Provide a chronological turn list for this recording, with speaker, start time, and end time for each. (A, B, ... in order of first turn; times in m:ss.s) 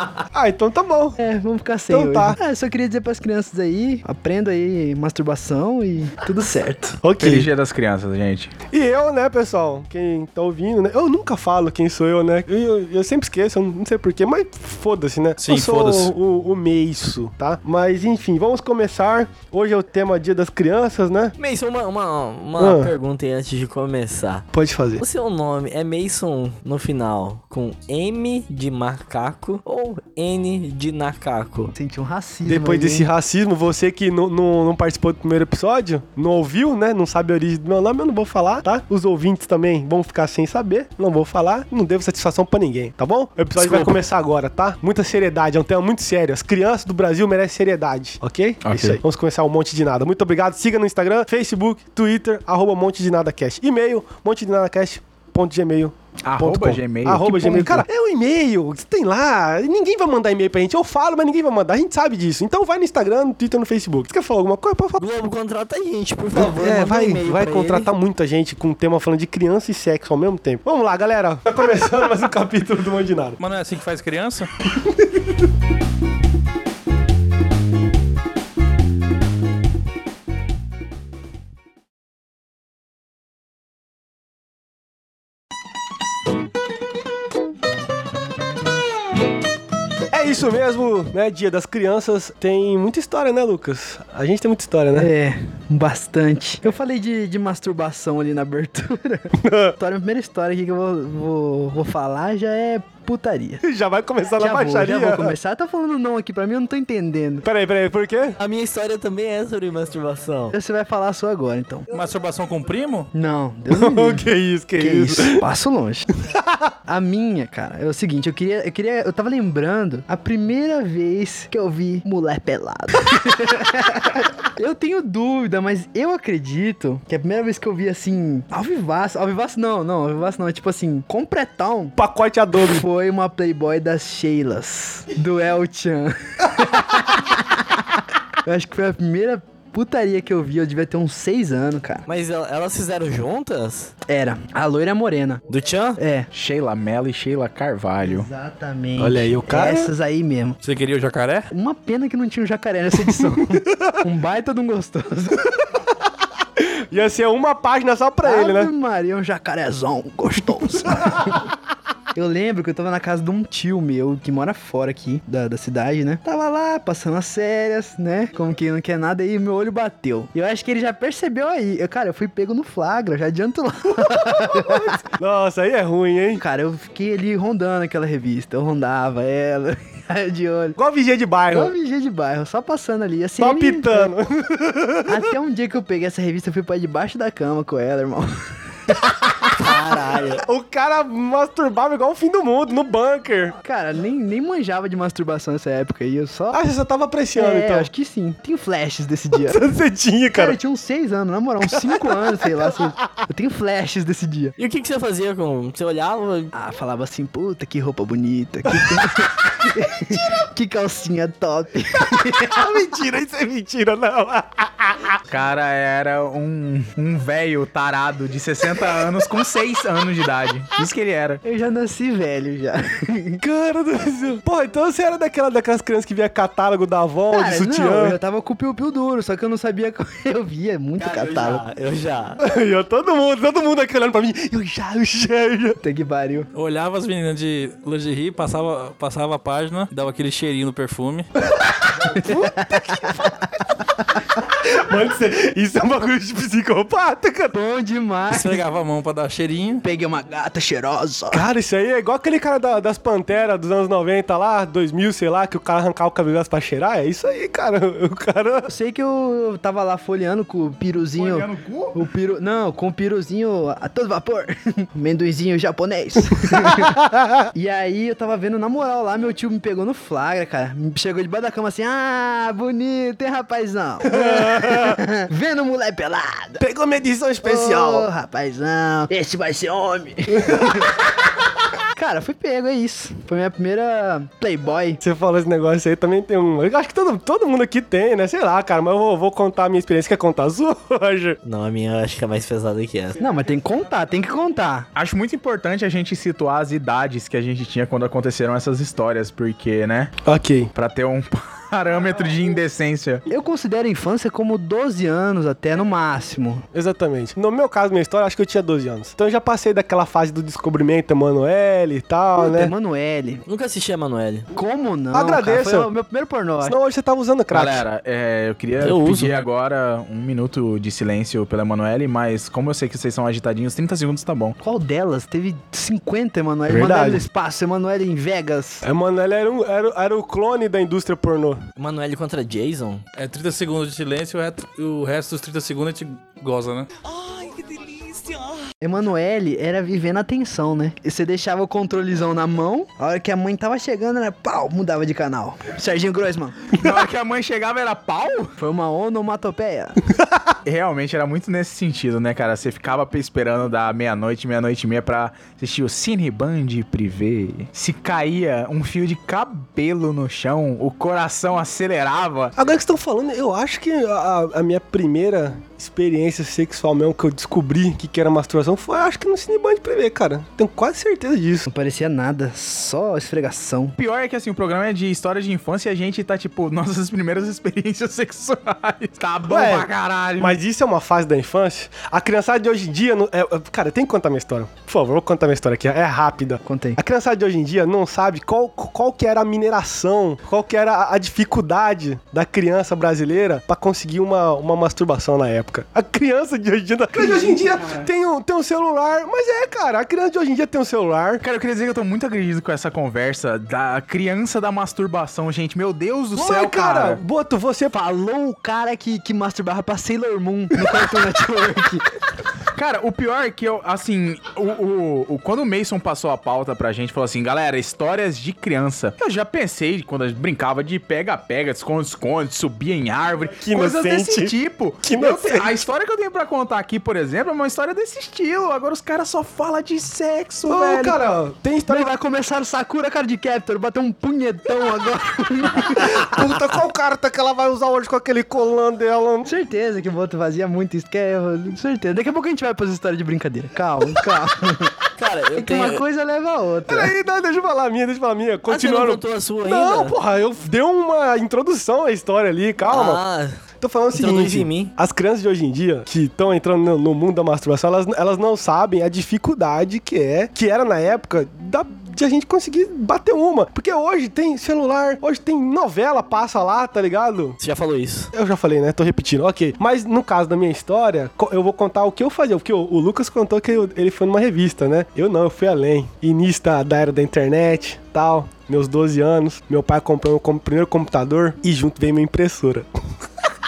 0:00.3-0:01.2 A
0:01.2-0:07.0 B
0:01.9-0:02.4 A
0:07.0-0:07.5 A
0:07.2-0:08.5 C
0:08.7-0:21.3 A
0:15.4-0:16.1 D
0:21.4-0:24.4 E
0:22.6-0:22.9 A
0:24.5-0:25.0 A
0:25.0-0:31.7 E
0:31.7-0:33.1 B
0:32.5-1:05.0 A
0:43.6-0:43.9 E
0:48.6-0:49.0 C
0:56.2-0:57.8 C
1:05.0-1:07.9 E
1:06.3-1:13.4 A
1:13.4-1:14.5 D
1:14.7-1:15.2 A
1:30.1-1:35.1 A
1:34.9-1:43.6 B
1:39.4-1:39.7 A
1:43.6-1:45.4 A
1:44.4-1:47.4 B
1:47.4-1:48.4 A
1:48.4-1:50.5 E
1:50.5-1:51.9 B
1:51.9-1:53.1 D
1:53.1-1:54.2 B
1:53.7-1:55.4 A
1:54.8-1:56.1 B
1:56.3-1:56.7 A
1:56.9-2:12.0 B
2:12.0-2:12.8 A
2:12.6-2:17.6 B
2:18.4-2:22.0 B
2:22.0-2:23.9 E
2:24.1-2:25.4 B
2:25.5-2:26.0 E
2:26.0-2:26.3 B
2:26.3-2:28.3 C
2:28.0-2:30.6 B
2:29.0-2:29.9 A
2:30.6-2:31.5 D
2:31.5-2:35.5 B
2:33.1-2:34.0 A
2:36.6-2:38.7 A
2:38.2-2:41.5 B
2:41.0-2:41.4 A
2:42.1-2:55.0 B
2:54.0-2:56.4 A
2:56.4-3:00.8 B
3:00.8-3:01.7 A
3:01.5-3:04.1 B
3:03.4-3:05.3 A
3:05.1-3:08.3 B
3:09.6-3:10.4 E
3:10.4-3:13.6 A
3:13.6-3:16.6 B
3:16.5-3:17.9 A
3:17.4-3:19.6 B
3:19.3-3:20.6 A
3:20.3-3:24.5 B
3:21.7-3:22.9 A
3:24.6-3:26.5 E
3:26.5-3:32.7 B
3:28.7-3:29.2 A
3:32.1-3:35.2 A
3:35.3-3:41.4 C
3:41.4-3:43.4 B
3:43.4-3:48.2 A
3:47.3-3:51.6 B
3:51.0-3:52.4 E
3:52.4-3:55.8 A
3:55.8-3:56.5 B
3:56.5-4:01.3 D
4:01.6-4:07.5 A
4:02.1-4:03.3 B
4:07.5-4:08.6 B
4:08.3-4:09.8 D
4:09.8-4:11.5 B
4:11.3-4:18.7 A
4:18.7-4:36.6 B
4:21.2-4:22.0 C
4:26.5-4:27.2 A
4:34.0-4:35.0 A
4:36.6-4:38.1 A
4:37.4-4:41.0 B
4:40.3-4:40.9 A
4:41.9-4:45.0 B
4:45.0-4:51.4 A
4:51.4-4:53.2 E
4:53.2-4:54.9 B
4:54.9-5:00.1 C
5:00.2-5:00.7 A
5:00.7-5:03.2 C
5:03.3-5:06.6 B
5:06.7-5:12.7 A
5:12.4-5:13.4 B
5:13.4-5:14.5 E
5:14.5-5:16.8 B
5:15.1-5:15.9 A
5:16.6-5:17.8 A
5:17.5-5:24.6 C
5:18.8-5:19.4 E
5:24.6-5:28.8 B
5:26.7-5:27.2 A
5:28.8-5:31.6 A
5:31.8-5:33.0 E
5:33.2-5:36.9 D
5:38.8-5:46.8 B
5:46.7-5:48.5 C
5:48.6-5:50.0 B
5:50.6-6:02.5 C
6:02.6-6:11.7 A
6:11.7-6:14.0 B
6:14.0-6:20.6 C
6:19.5-6:41.4 A
6:26.6-6:27.0 B
6:41.4-6:47.2 C
6:46.3-6:47.9 A
6:47.9-6:52.0 B
6:52.7-7:11.2 C
7:03.6-7:05.8 A
7:10.6-7:12.1 A
7:11.9-7:16.3 B
7:15.8-7:19.5 A
7:19.4-7:25.0 B
7:25.2-7:26.0 E
7:25.5-7:27.1 B
7:26.9-7:33.2 A
7:28.7-7:30.2 E
7:32.9-7:33.6 E
7:33.8-7:47.6 A
7:34.1-7:34.9 E
7:47.6-7:48.3 E
7:48.3-8:02.9 A